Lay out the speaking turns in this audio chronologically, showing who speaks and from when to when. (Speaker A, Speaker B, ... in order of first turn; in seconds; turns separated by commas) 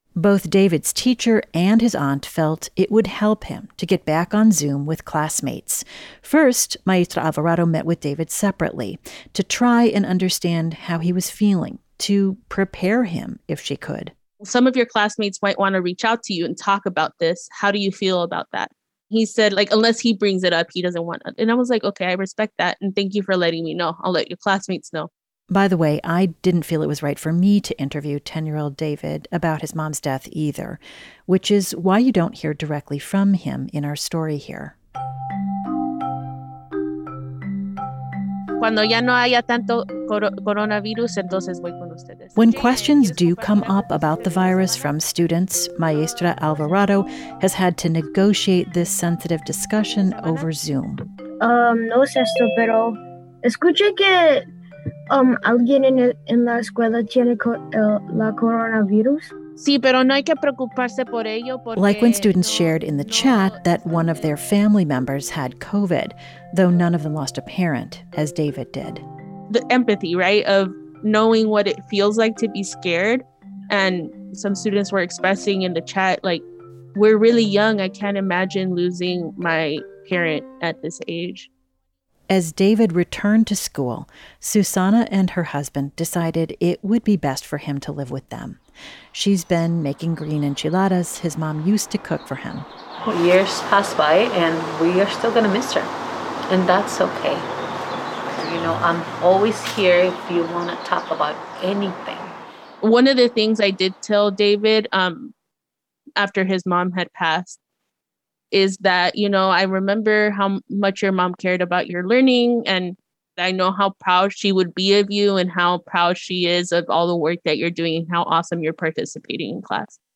Speaker A: 0.2-14.1, Speaker B: 14.4-25.1, Speaker A: 25.5-34.8, Speaker B: 38.6-45.0, Speaker A: 42.4-51.0, Speaker B: 49.9-50.5, Speaker C: 51.4-54.5, Speaker C: 55.1-59.3, Speaker B: 59.6-64.4, Speaker A: 61.8-69.0, Speaker B: 69.5-76.4, Speaker B: 77.0-81.5, Speaker A: 82.3-88.6, Speaker A: 89.1-92.7, Speaker D: 93.0-95.9, Speaker D: 96.5-97.5, Speaker D: 98.3-102.3, Speaker B: 102.8-105.3, Speaker B: 106.2-107.6, Speaker B: 108.5-120.0